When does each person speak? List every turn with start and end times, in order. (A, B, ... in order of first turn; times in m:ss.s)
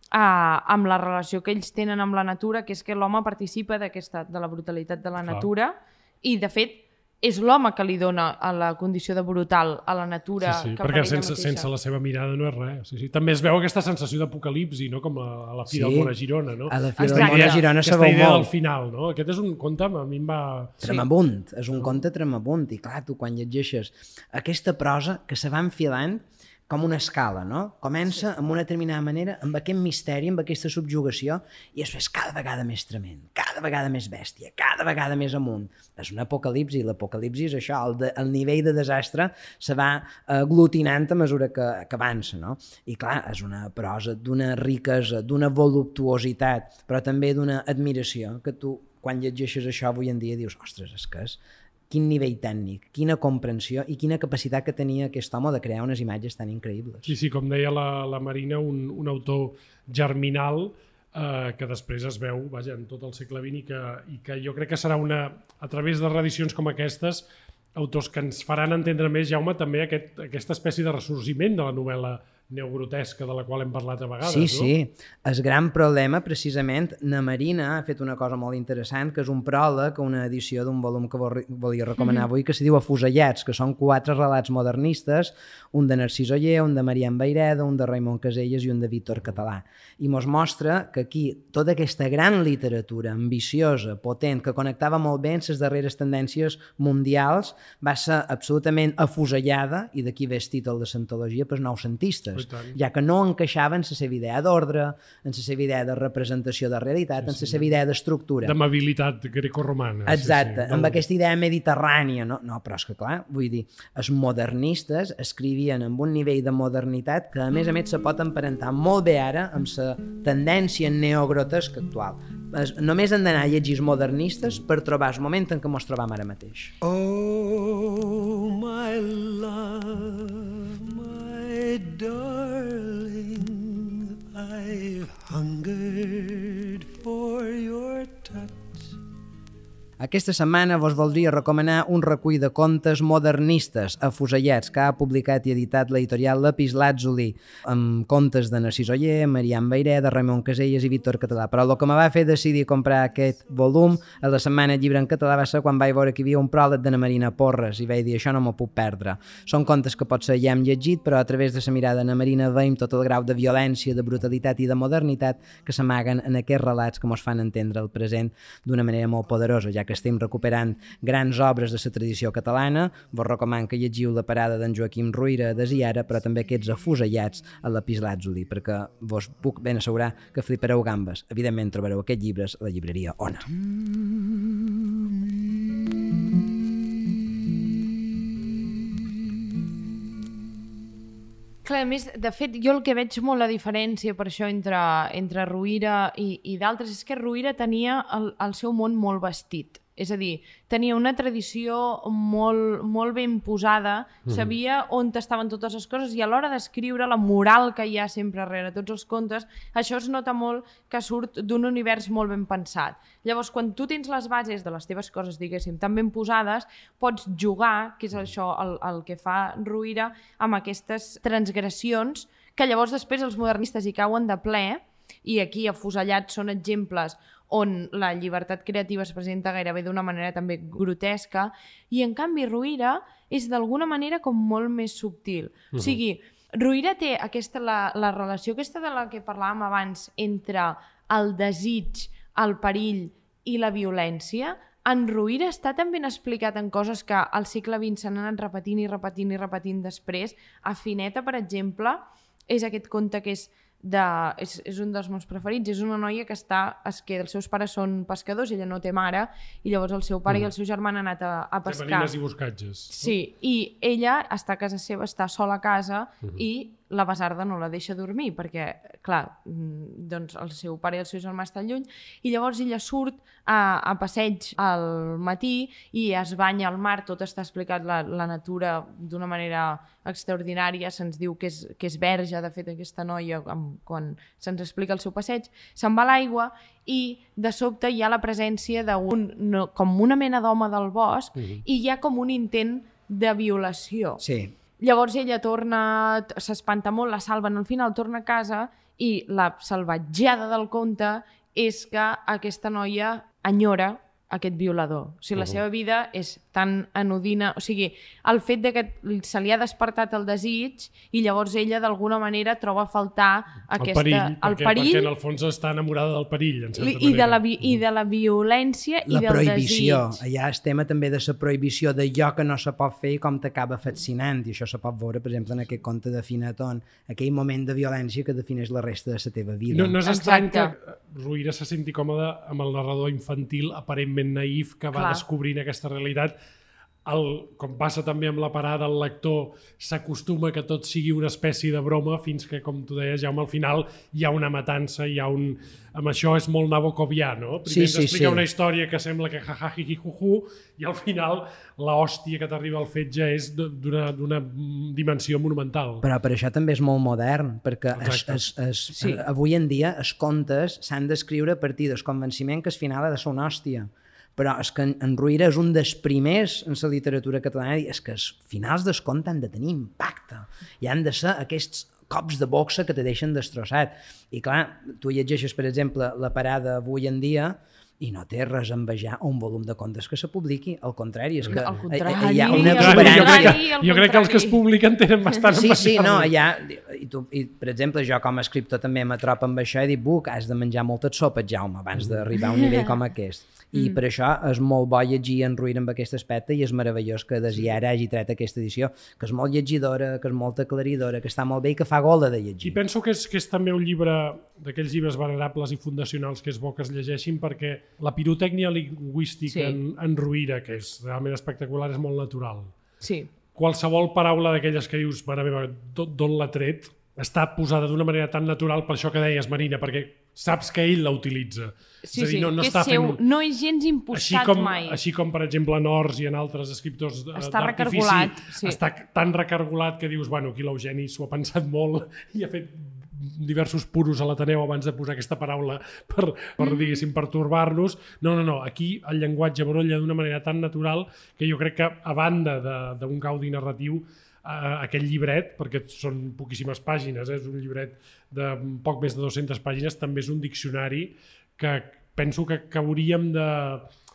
0:00.1-0:11.7 A
0:10.4-0:21.0 B
0:15.7-0:16.1 C
0:16.7-0:18.5 C
0:17.0-0:17.6 A
0:20.8-0:57.1 C
0:57.0-1:14.7 B
1:14.2-1:48.5 C
1:22.0-1:22.2 A
1:42.3-1:42.8 B
1:47.2-1:47.6 B
1:48.4-1:51.0 B
1:50.0-2:06.7 C
2:06.8-2:19.0 D
2:20.0-3:03.5 C
3:03.6-3:05.3 D
3:08.6-3:09.1 D
3:11.6-4:22.1 A
3:24.2-3:24.5 B
4:21.6-4:23.1 B
4:22.9-4:54.2 A
4:51.4-4:51.6 B
4:54.2-4:54.5 C
4:54.8-5:15.1 A
5:05.4-5:05.6 B
5:13.8-5:17.8 B
5:16.8-5:20.2 A
5:19.1-5:30.0 C
5:29.7-5:36.3 B
5:30.0-5:30.7 A
5:34.9-5:35.2 A
5:37.0-5:56.1 B
5:47.6-5:48.4 C
5:56.0-6:23.6 C
5:58.0-5:58.5 B
6:21.5-6:24.6 A
6:22.5-6:26.3 B
6:25.5-6:42.8 C
6:32.4-6:32.9 A
6:42.6-6:52.8 B
6:49.5-6:49.8 A
6:53.0-6:53.3 A
6:53.5-7:03.2 B
7:02.0-7:05.0 A
7:04.1-7:33.9 B
7:07.4-7:08.8 A
7:16.6-7:17.1 A